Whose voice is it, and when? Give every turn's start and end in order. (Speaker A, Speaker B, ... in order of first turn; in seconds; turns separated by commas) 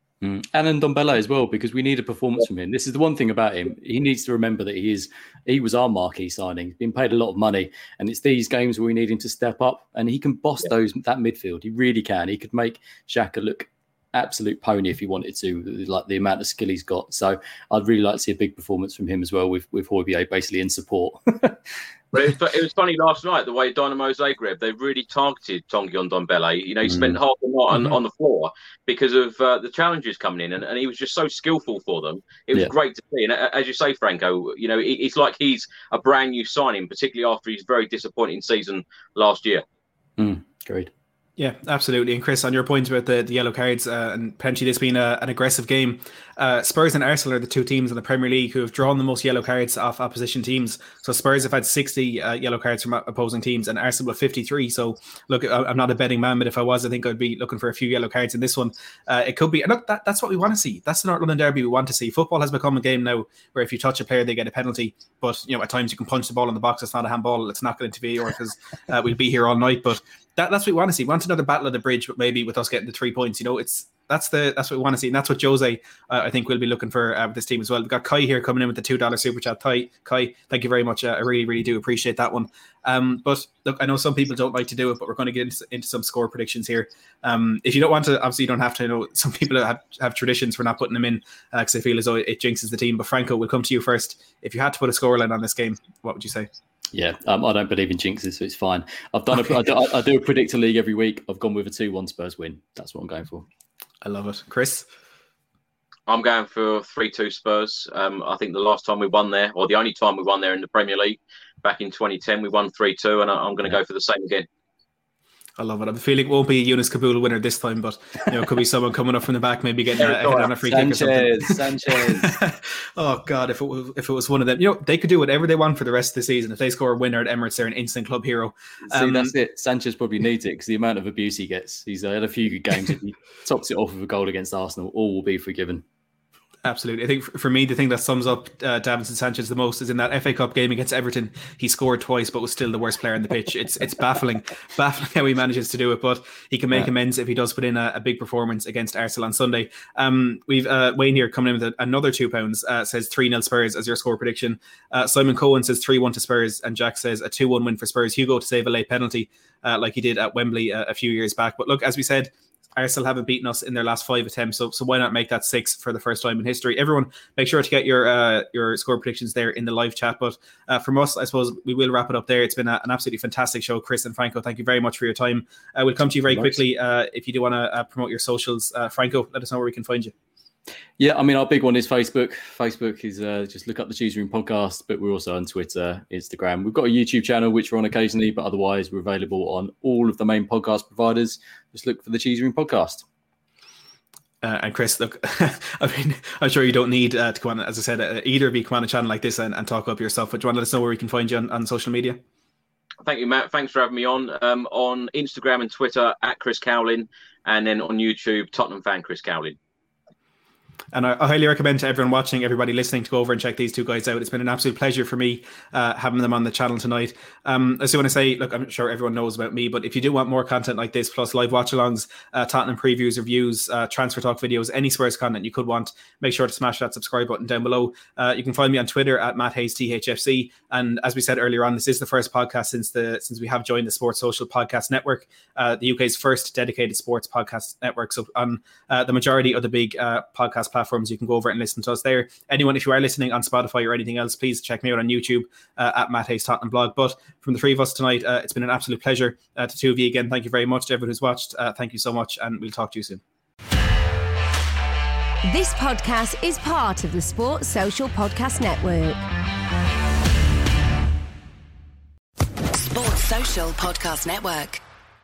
Speaker A: 0.2-21.6, Speaker B: 22.1-39.6, Speaker A: 26.9-27.2, Speaker A: 40.2-40.9, Speaker C: 41.4-96.5, Speaker A: 96.9-103.5, Speaker C: 104.0-104.9, Speaker B: 106.1-114.5, Speaker C: 115.6-129.3, Speaker B: 120.0-120.5, Speaker A: 120.6-122.4, Speaker A: 128.9-135.8, Speaker C: 136.7-180.1, Speaker A: 176.3-176.6, Speaker A: 181.0-193.1, Speaker C: 194.4-202.2, Speaker B: 203.0-209.6, Speaker C: 210.9-253.2, Speaker D: 255.5-259.2, Speaker E: 262.8-264.8